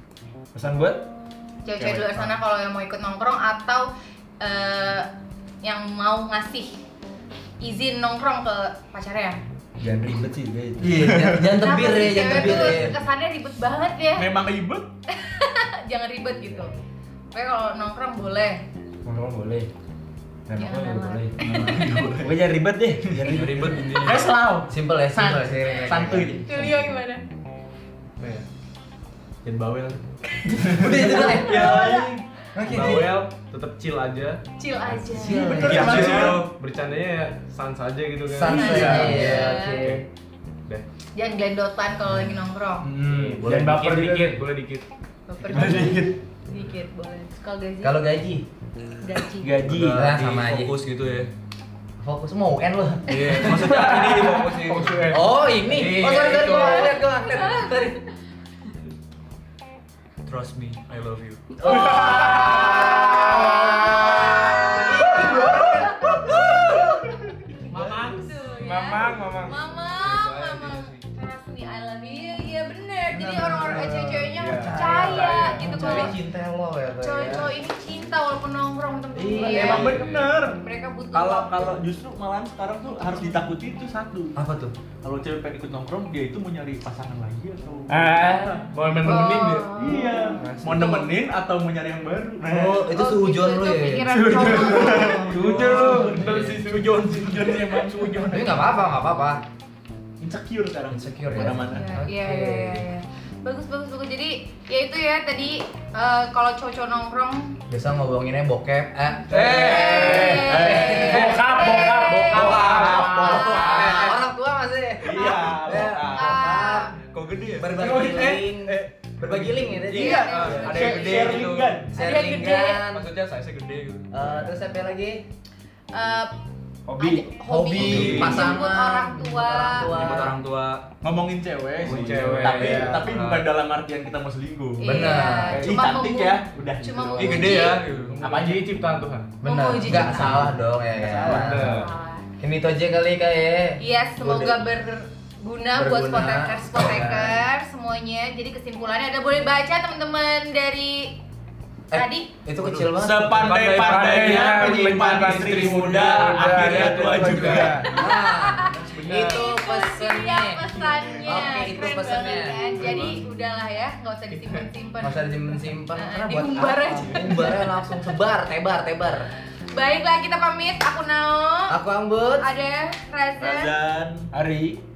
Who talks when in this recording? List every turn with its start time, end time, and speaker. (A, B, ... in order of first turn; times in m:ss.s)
0:00.5-0:01.0 A
0:01.6-0:05.1 B
0:01.8-0:02.3 C
0:05.6-0:06.7 B
0:07.6-0:09.4 B
0:09.8-0:12.9 A
0:10.8-0:12.9 D
0:11.6-0:14.3 B
0:14.2-0:14.9 C
0:15.1-0:16.7 B
0:17.3-0:18.6 B
0:19.0-0:19.7 A
0:20.5-0:21.3 A
0:20.6-0:22.1 B
0:21.4-0:22.4 C
0:22.2-0:24.2 A
0:23.1-0:26.4 C
0:23.3-0:24.3 E
0:24.7-0:26.6 D
0:25.6-0:27.2 B
0:28.2-0:28.4 F
0:29.4-0:32.2 C
0:30.7-0:32.0 D
0:31.0-0:32.2 B
0:32.5-0:33.2 D
0:32.6-0:40.0 F
0:34.6-0:35.7 B
0:35.1-0:36.3 D
0:35.2-0:36.5 C
0:35.6-0:36.5 E
0:38.3-0:40.0 D
0:38.4-0:39.5 C
0:38.5-0:39.9 B
0:41.1-0:42.9 B
0:42.9-0:44.4 A
0:43.1-0:44.9 F
0:45.3-0:48.0 B
0:45.5-0:46.0 C
0:47.8-0:48.4 D
0:49.0-0:49.5 B
0:49.5-0:51.3 E
0:49.7-0:50.8 D
0:52.0-0:53.8 D
0:53.1-0:55.1 E
0:53.5-0:55.4 F
0:55.1-0:58.0 D
0:55.7-0:56.6 A
0:55.8-0:56.9 E
0:56.2-0:57.9 B
1:00.2-1:01.7 E
1:01.6-1:07.2 B
1:01.6-1:07.1 D
1:02.0-1:03.6 A
1:05.3-1:05.6 C
1:07.7-1:16.2 B
1:07.7-1:08.3 F
1:08.6-1:09.6 A
1:10.0-1:11.0 E
1:13.1-1:17.5 D
1:14.3-1:16.1 F
1:17.0-1:21.8 B
1:19.1-1:20.1 D
1:19.3-1:20.6 C
1:20.0-1:20.3 E
1:21.1-1:24.4 C
1:24.4-1:24.7 D
1:25.0-1:28.2 C
1:27.9-1:28.6 A
1:28.6-1:29.8 F
1:29.0-1:30.3 B
1:29.7-1:32.9 C
1:30.3-1:31.0 A
1:32.5-1:36.5 D
1:32.9-1:35.4 B
1:34.1-1:38.8 C
1:34.3-1:36.3 A
1:35.8-1:37.6 F
1:38.2-1:39.4 D
1:40.2-1:42.0 C
1:40.9-1:42.8 D
1:41.6-1:47.6 B
1:47.7-1:56.9 D
1:49.3-1:54.0 A
1:49.5-1:54.1 B
1:50.2-1:54.2 C
1:55.0-1:56.8 C
1:56.0-1:56.9 B
1:57.0-1:58.2 E
1:57.6-2:00.8 D
1:57.7-2:01.9 C
1:59.8-2:01.8 E
1:59.9-2:02.8 B
2:01.9-2:03.1 D
2:02.8-2:04.5 E
2:04.1-2:05.2 D
2:05.9-2:06.3 B
2:06.9-2:07.3 A
2:07.0-2:10.3 B
2:07.5-2:10.4 D
2:07.8-2:08.5 E
2:09.8-2:10.8 E
2:11.0-2:18.7 C
2:11.8-2:12.9 A
2:11.8-2:13.1 F
2:12.7-2:13.5 E
2:14.8-2:17.8 B
2:14.8-2:15.7 D
2:17.2-2:18.2 E
2:18.2-2:19.3 F
2:19.4-2:20.5 B
2:19.4-2:21.7 D
2:19.8-2:21.8 C
2:21.3-2:21.9 F
2:21.5-2:22.3 B
2:22.4-2:24.6 D
2:23.8-2:31.2 B
2:25.7-2:27.4 D
2:31.9-2:33.7 D
2:31.9-2:32.3 B
2:32.9-2:37.9 C
2:33.5-2:34.6 E
2:33.5-2:37.9 A
2:35.2-2:37.8 F
2:37.8-2:45.4 B
2:37.8-2:42.9 D
2:38.6-2:39.3 E
2:41.2-2:41.5 C
2:42.8-2:43.1 E
2:45.0-2:49.3 D
2:45.9-2:48.1 B
2:49.7-2:51.7 B
2:51.7-2:52.5 D
2:52.4-2:53.7 B
2:53.4-2:54.3 C
2:54.3-2:54.8 A